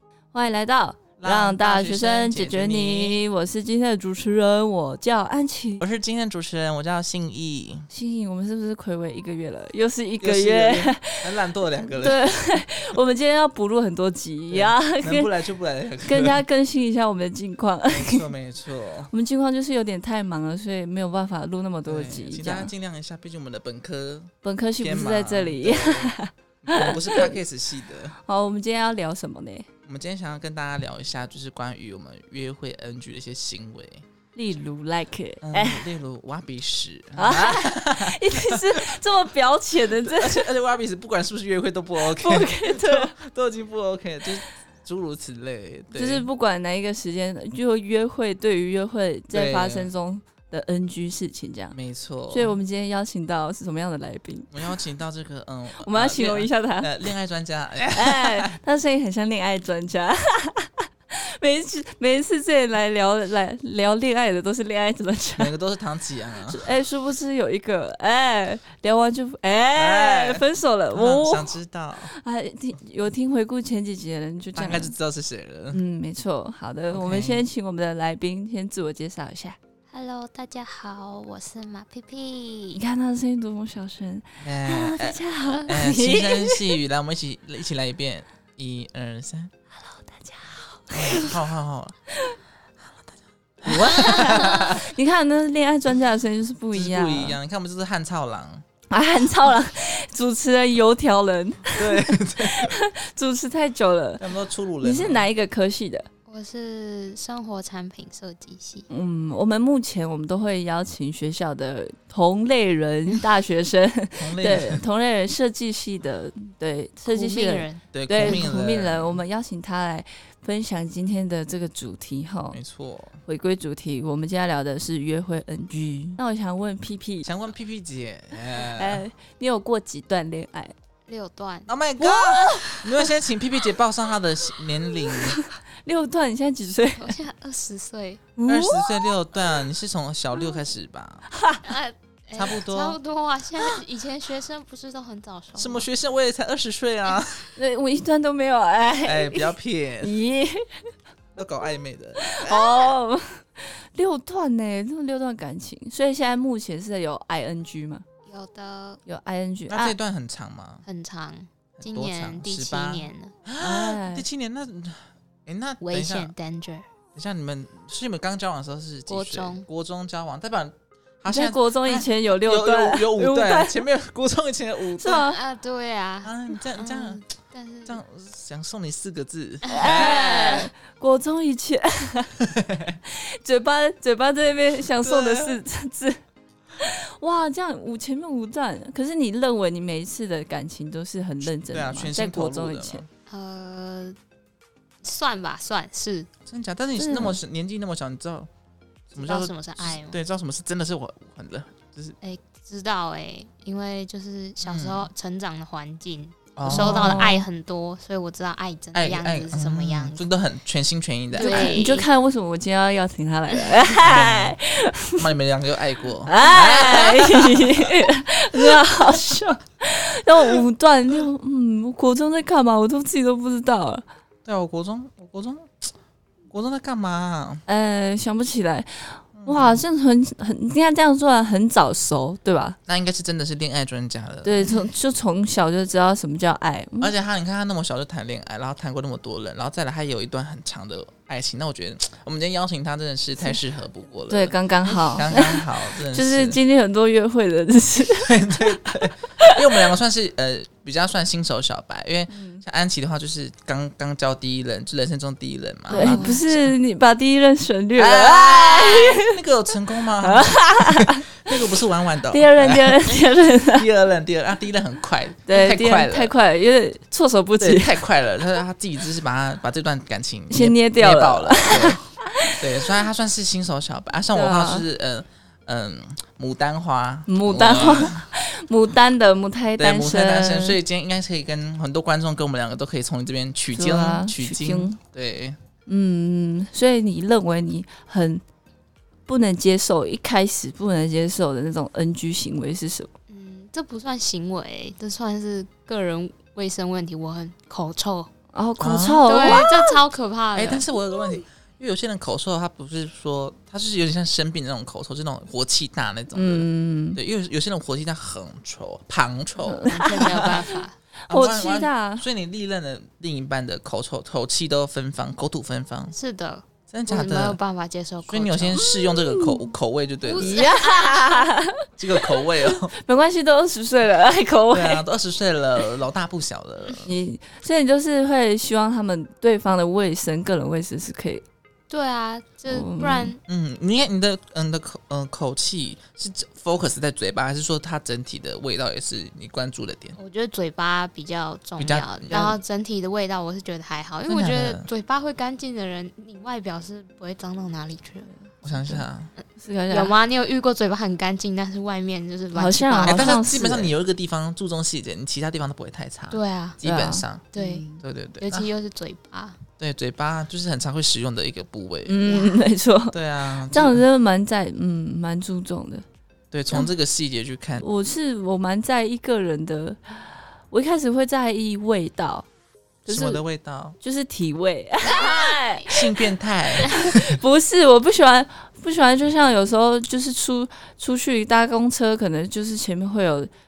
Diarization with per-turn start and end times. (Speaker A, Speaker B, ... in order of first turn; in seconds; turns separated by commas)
Speaker A: 0.3-5.8, Speaker B: 1.2-3.2, Speaker B: 5.8-7.9, Speaker A: 7.9-11.2, Speaker B: 10.2-12.6, Speaker A: 12.0-15.3, Speaker B: 14.5-16.4, Speaker A: 16.1-18.3, Speaker B: 17.9-19.1, Speaker A: 19.1-22.7, Speaker B: 21.9-28.1, Speaker A: 24.4-27.3, Speaker A: 28.2-29.7, Speaker B: 29.9-34.0, Speaker A: 34.3-35.9, Speaker B: 35.4-38.9, Speaker A: 37.1-40.4, Speaker B: 39.9-46.2, Speaker A: 42.0-43.1, Speaker A: 45.9-51.8, Speaker B: 49.3-49.9, Speaker B: 51.7-52.5, Speaker A: 52.3-54.5, Speaker B: 54.5-58.5, Speaker A: 55.8-56.9, Speaker A: 57.9-65.5, Speaker B: 65.4-66.6, Speaker A: 66.5-71.5, Speaker B: 69.7-72.1, Speaker A: 72.1-74.9, Speaker B: 74.5-75.8, Speaker A: 75.7-79.6, Speaker B: 76.9-77.4, Speaker C: 79.9-82.8, Speaker A: 82.7-86.6, Speaker B: 84.4-89.5, Speaker A: 89.8-91.3, Speaker B: 90.9-92.0, Speaker B: 92.8-94.9, Speaker A: 93.7-97.4, Speaker B: 96.7-98.6, Speaker A: 98.9-104.2, Speaker B: 101.7-102.8, Speaker B: 104.2-105.3, Speaker A: 104.8-106.1, Speaker C: 106.3-108.9, Speaker A: 108.9-122.6, Speaker B: 114.2-114.8, Speaker C: 117.0-118.4, Speaker B: 117.9-119.2, Speaker B: 122.5-123.2, Speaker A: 123.2-127.3, Speaker B: 127.2-129.0, Speaker A: 128.6-130.7, Speaker C: 131.1-131.7, Speaker B: 131.7-135.4, Speaker A: 132.0-132.8, Speaker A: 135.4-137.1, Speaker C: 136.9-138.2, Speaker A: 138.4-139.0, Speaker B: 138.4-141.3, Speaker A: 141.3-141.6, Speaker C: 141.6-145.9, Speaker B: 142.3-143.0, Speaker B: 145.6-147.4, Speaker A: 147.6-150.8, Speaker B: 149.0-150.2, Speaker B: 151.3-152.9, Speaker A: 152.2-158.0, Speaker C: 158.2-159.0, Speaker A: 159.1-159.9, Speaker B: 159.7-160.8, Speaker C: 160.8-163.3, Speaker B: 161.8-166.3, Speaker A: 163.6-164.2, Speaker C: 165.8-166.8, Speaker B: 167.1-175.3, Speaker C: 169.1-169.7, Speaker A: 171.3-173.8, Speaker A: 175.0-175.4, Speaker C: 175.2-178.0, Speaker B: 176.2-177.2, Speaker B: 177.8-180.6, Speaker C: 179.6-180.7, Speaker A: 179.7-182.3, Speaker B: 182.4-183.0, Speaker A: 183.1-186.2, Speaker B: 184.9-185.6, Speaker A: 186.8-193.0, Speaker B: 191.4-193.1, Speaker C: 193.3-194.2, Speaker C: 195.0-196.3, Speaker B: 196.4-198.5, Speaker A: 196.9-197.4, Speaker B: 199.1-202.2, Speaker C: 199.1-200.2, Speaker C: 202.2-210.2, Speaker B: 204.6-205.1, Speaker B: 206.6-207.4, Speaker A: 206.7-207.4, Speaker B: 208.9-212.0, Speaker C: 211.3-212.1, Speaker A: 211.4-215.2, Speaker B: 214.0-214.6, Speaker B: 215.2-217.9, Speaker A: 216.2-224.0, Speaker B: 218.5-219.2, Speaker B: 224.4-225.9, Speaker B: 226.5-227.6, Speaker A: 227.7-232.8, Speaker B: 229.3-229.8, Speaker B: 232.9-234.6, Speaker A: 234.4-237.1, Speaker B: 237.0-244.6, Speaker A: 244.3-248.6, Speaker C: 244.9-245.3, Speaker B: 245.1-246.6, Speaker B: 248.1-256.7, Speaker A: 252.3-252.6, Speaker C: 255.9-256.4, Speaker A: 255.9-259.3, Speaker B: 258.0-263.2, Speaker A: 260.2-261.5, Speaker A: 262.3-263.8, Speaker B: 263.7-266.3, Speaker A: 265.5-267.9, Speaker B: 267.6-272.0, Speaker A: 270.5-272.6, Speaker B: 272.6-278.3, Speaker A: 274.3-274.8, Speaker A: 277.3-280.8, Speaker B: 279.8-285.6, Speaker A: 283.7-285.0, Speaker A: 285.9-288.4, Speaker A: 289.3-293.1, Speaker C: 293.3-298.3, Speaker A: 298.5-299.9, Speaker B: 298.8-299.7, Speaker C: 299.3-300.9, Speaker B: 300.5-310.7, Speaker A: 306.3-307.2, Speaker A: 309.6-310.6, Speaker C: 309.9-310.9, Speaker A: 311.3-312.2, Speaker B: 311.3-316.1, Speaker C: 316.1-318.9, Speaker B: 316.9-317.6, Speaker B: 318.2-320.6, Speaker A: 319.3-319.6, Speaker C: 320.2-321.5, Speaker A: 320.4-321.9, Speaker B: 322.0-322.9, Speaker A: 322.7-325.0, Speaker B: 324.7-327.1, Speaker A: 327.0-331.4, Speaker C: 331.9-333.4, Speaker A: 332.7-333.3, Speaker B: 333.5-340.1, Speaker C: 340.2-348.3, Speaker B: 341.8-342.6, Speaker B: 344.2-344.9, Speaker B: 348.6-349.3, Speaker A: 348.6-349.0, Speaker C: 349.4-353.4, Speaker A: 349.6-350.1, Speaker A: 352.5-353.9, Speaker B: 353.0-358.7, Speaker C: 356.3-356.8, Speaker A: 356.8-358.0, Speaker C: 357.5-357.9, Speaker C: 358.4-359.6, Speaker B: 359.8-362.2, Speaker A: 362.1-366.0, Speaker C: 362.2-362.7, Speaker B: 363.1-364.0, Speaker B: 366.5-367.8, Speaker A: 367.8-372.4, Speaker A: 373.1-373.4, Speaker B: 373.1-374.0, Speaker A: 374.0-375.9, Speaker B: 375.9-377.4, Speaker A: 377.0-383.5